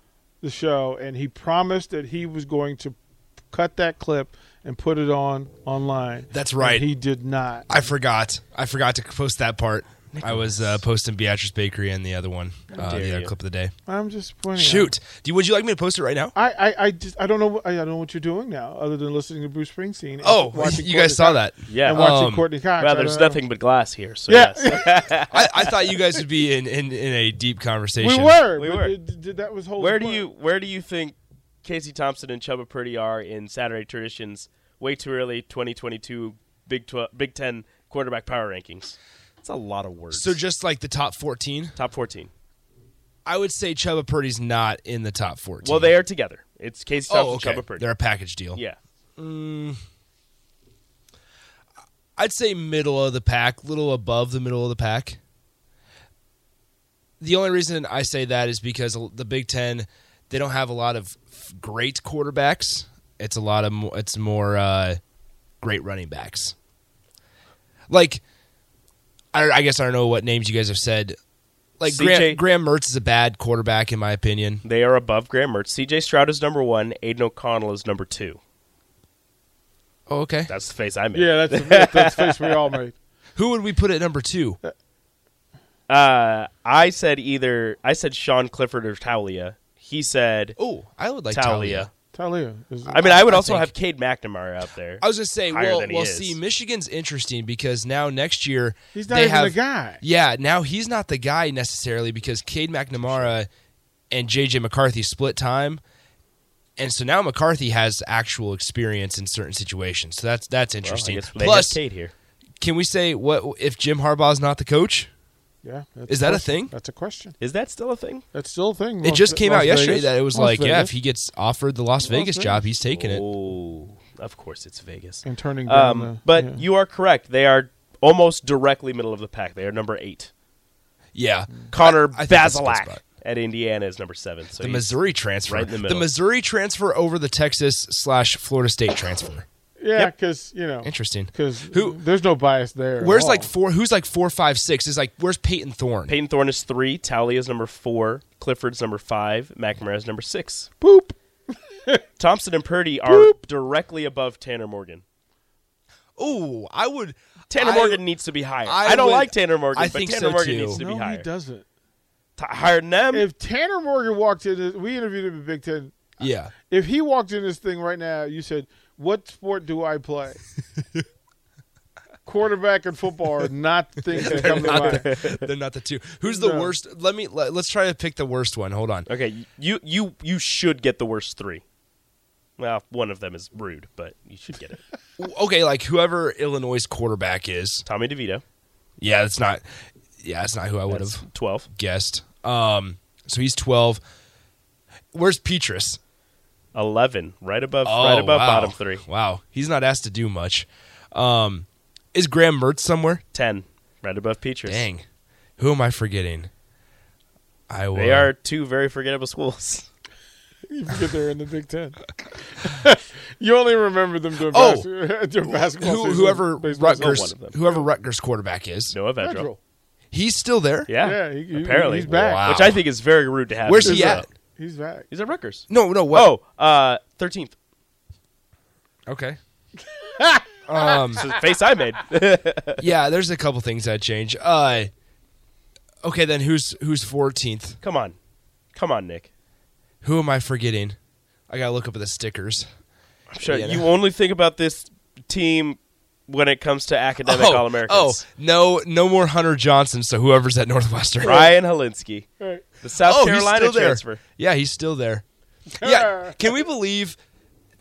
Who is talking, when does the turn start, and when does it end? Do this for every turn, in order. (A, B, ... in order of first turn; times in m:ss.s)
0:00.4-0:03.0 A
0:03.5-0:07.7 A
0:06.3-0:06.9 B
0:07.7-0:13.7 B
0:10.1-0:10.8 C
0:12.7-0:13.3 C
0:13.9-0:15.0 A
0:14.5-0:16.3 B
0:16.3-0:23.4 A
0:20.2-0:22.5 B
0:21.7-0:22.1 C
0:22.8-0:26.0 C
0:24.3-0:25.3 A
0:25.3-0:28.4 B
0:28.0-0:30.3 A
0:28.6-0:29.0 C
0:29.8-0:40.4 C
0:40.1-0:41.8 B
0:41.8-0:42.3 C
0:43.2-0:46.0 B
0:45.6-0:47.9 C
0:47.1-0:48.6 B
0:49.2-0:49.8 B
0:52.2-0:55.2 B
0:57.2-1:05.0 B
1:05.6-1:06.6 B
1:07.9-1:08.2 B
1:09.3-1:11.2 B
1:11.8-1:14.6 B
1:11.9-1:12.4 C
1:14.6-1:18.4 C
1:20.1-1:20.5 B
1:20.5-1:22.7 C
1:21.1-1:23.0 A
1:23.4-1:24.6 B
1:25.9-1:30.6 C
1:30.6-1:31.9 B
1:31.3-1:31.9 C
1:32.1-1:33.3 A
1:32.9-1:33.7 B
1:32.9-1:36.4 C
1:35.0-1:43.5 B
1:38.9-1:40.0 A
1:43.0-1:43.3 C
1:44.1-1:45.8 B
1:46.8-1:51.8 B
1:50.8-1:52.1 C
1:52.6-1:55.1 B
1:55.6-1:57.4 A
1:56.1-1:56.7 B
1:57.4-1:58.2 C
1:58.3-2:00.9 A
1:59.0-2:03.2 B
2:02.0-2:02.7 A
2:02.8-2:10.3 C
2:05.2-2:06.6 A
2:11.2-2:13.0 B
2:11.7-2:16.1 C
2:14.6-2:19.5 B
2:19.8-2:23.5 A
2:20.8-2:22.0 B
2:23.0-2:26.1 B
2:26.1-2:30.7 C
2:30.8-2:31.1 A
2:31.7-2:32.0 A
2:32.2-2:35.0 C
2:36.2-2:38.0 B
2:37.5-2:41.3 C
2:38.6-2:40.8 B
2:40.7-2:41.7 A
2:42.4-2:43.3 C
2:43.1-2:46.1 A
2:46.2-2:46.5 B
2:46.7-2:50.4 A
2:52.2-2:55.1 A
2:54.1-2:59.1 B
2:54.2-2:55.4 C
2:56.2-2:56.8 A
2:59.1-3:01.6 C
3:02.6-3:04.8 C
3:05.2-3:07.8 B
3:07.8-3:08.4 C
3:09.0-3:09.6 B
3:10.2-3:14.0 B
3:10.9-3:11.7 C
3:15.1-3:16.0 B
3:16.7-3:19.0 C
3:17.8-3:23.2 B
3:23.3-3:24.9 C
3:24.6-3:25.0 B
3:25.6-3:26.5 B
3:27.7-3:28.3 B
3:27.9-3:29.9 C
3:30.7-3:37.8 A
3:34.5-3:34.9 B
3:35.5-3:39.0 B
3:37.0-3:37.6 C
3:38.9-3:39.5 C
3:39.2-3:39.6 A
3:40.1-3:40.9 B
3:40.9-3:44.3 C
3:41.0-3:42.5 A
3:42.1-3:42.8 B
3:43.7-3:44.3 B
3:43.8-3:45.1 A
3:45.1-3:47.5 C
3:45.7-3:46.3 B
3:49.1-3:49.4 B
3:49.9-3:51.3 A
3:50.7-3:51.2 B
3:51.2-3:52.8 C
3:52.8-3:54.9 B
3:56.0-3:57.8 B
3:57.8-3:58.2 C
3:58.7-3:59.3 C
4:00.0-4:01.0 B
4:01.5-4:02.7 B
4:03.3-4:08.2 C
4:03.4-4:03.9 B
4:07.2-4:11.5 B
4:11.2-4:12.3 C
4:12.4-4:12.7 A
4:12.8-4:14.2 C
4:13.0-4:15.2 B
4:15.8-4:16.4 A
4:15.8-4:17.2 B